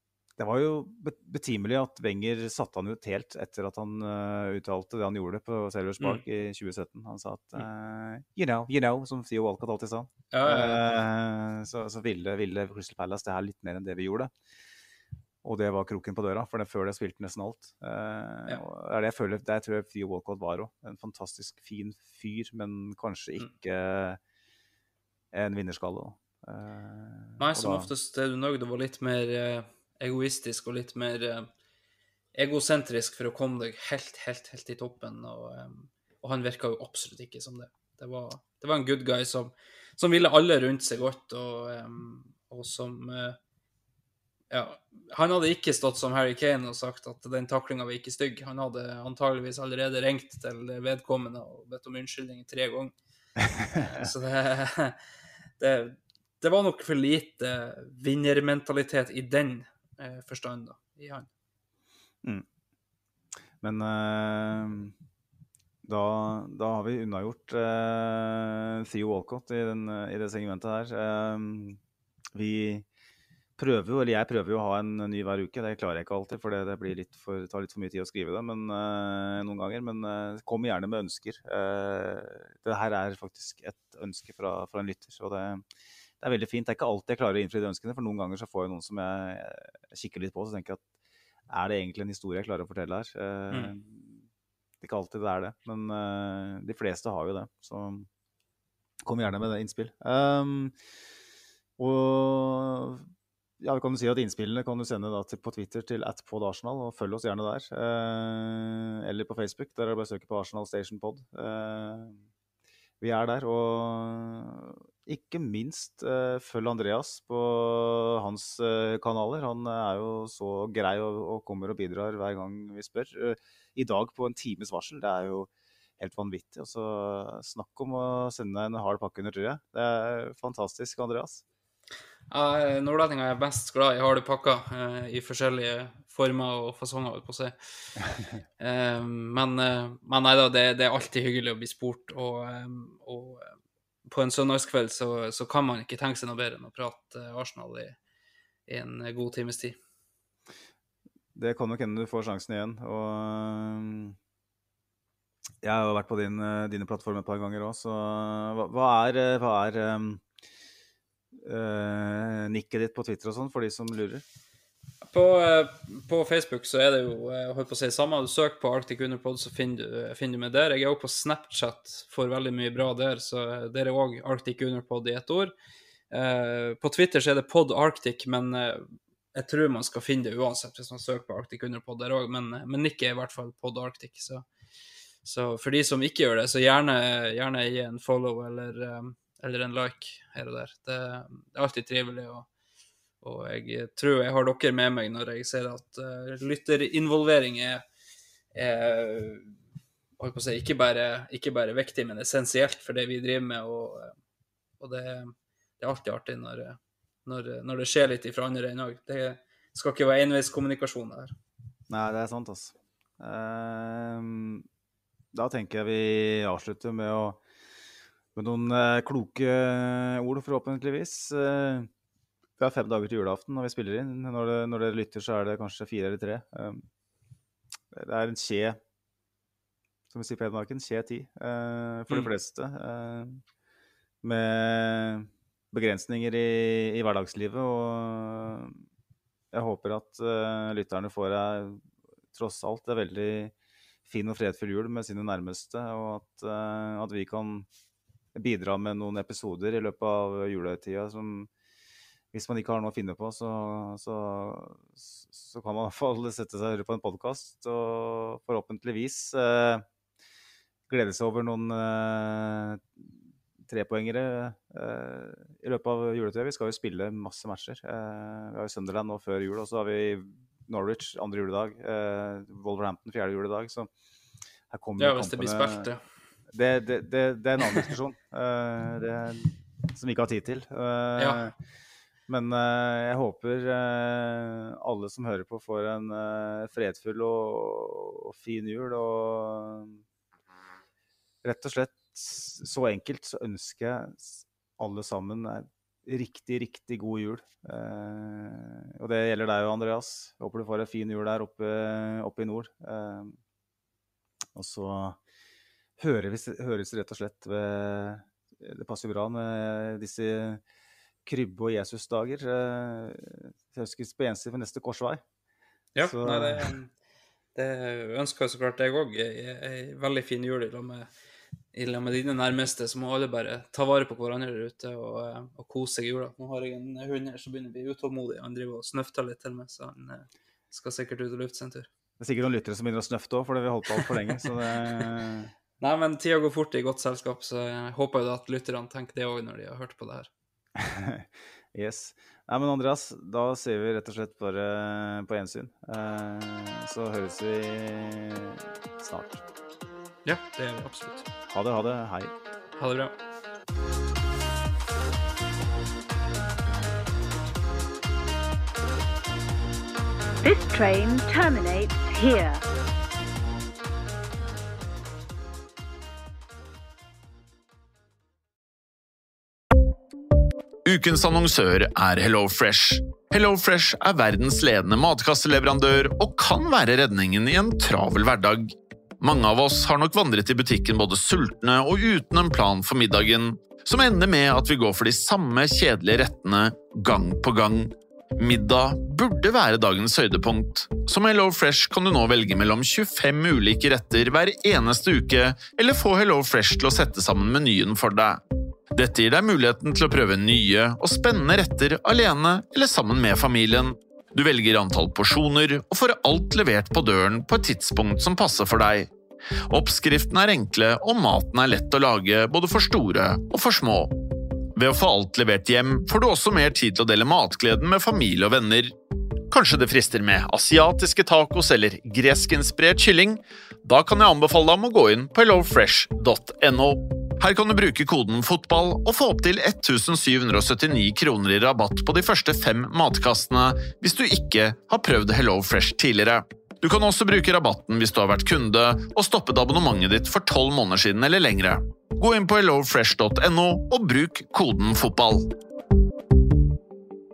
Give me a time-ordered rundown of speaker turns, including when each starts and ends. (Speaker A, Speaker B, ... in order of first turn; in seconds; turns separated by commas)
Speaker A: 0.4-14.3, Speaker B: 10.3-11.0, Speaker A: 15.4-24.2, Speaker A: 25.3-27.9, Speaker B: 27.4-31.5, Speaker B: 32.3-43.4, Speaker B: 44.5-52.9, Speaker B: 53.7-55.0, Speaker B: 55.6-61.3, Speaker A: 63.6-64.9, Speaker A: 65.8-71.8, Speaker A: 72.3-72.8, Speaker A: 73.6-85.6, Speaker A: 86.2-90.8, Speaker A: 91.5-94.2, Speaker A: 94.8-98.1, Speaker A: 99.0-100.7, Speaker A: 101.8-103.1, Speaker A: 103.6-112.2, Speaker A: 113.0-131.4, Speaker B: 132.3-137.6, Speaker B: 138.6-143.5, Speaker B: 144.0-147.9, Speaker B: 148.7-149.8, Speaker A: 151.3-154.2, Speaker A: 155.6-160.2, Speaker A: 161.3-164.2, Speaker B: 165.0-175.5, Speaker B: 176.1-184.4, Speaker B: 185.2-192.5, Speaker B: 193.2-197.8, Speaker B: 198.5-199.5, Speaker B: 200.2-204.1, Speaker B: 204.8-211.3, Speaker A: 211.9-214.7, Speaker A: 215.3-217.4, Speaker A: 218.3-221.9, Speaker A: 222.6-226.8, Speaker A: 227.9-228.8, Speaker A: 230.1-233.4, Speaker A: 234.2-238.8, Speaker A: 239.5-243.5, Speaker A: 244.1-247.7, Speaker A: 248.3-251.5, Speaker A: 252.3-259.8, Speaker A: 260.9-263.1, Speaker A: 263.6-273.9, Speaker A: 274.7-275.9, Speaker B: 275.0-276.0, Speaker A: 276.5-281.5, Speaker B: 281.2-281.5, Speaker A: 282.3-290.0, Speaker A: 291.4-303.4, Speaker A: 304.5-305.2, Speaker A: 306.0-310.6, Speaker A: 311.2-315.2, Speaker B: 315.9-316.9, Speaker A: 316.0-316.7, Speaker B: 317.5-321.1, Speaker B: 321.7-331.9, Speaker A: 332.2-335.5, Speaker B: 335.8-340.3, Speaker A: 340.8-349.4, Speaker B: 350.2-351.3, Speaker A: 351.4-352.3, Speaker B: 352.8-353.1, Speaker C: 360.4-362.6, Speaker D: 370.8-398.4, Speaker D: 398.9-409.1, Speaker D: 409.7-414.1, Speaker D: 414.7-418.9, Speaker D: 419.5-445.5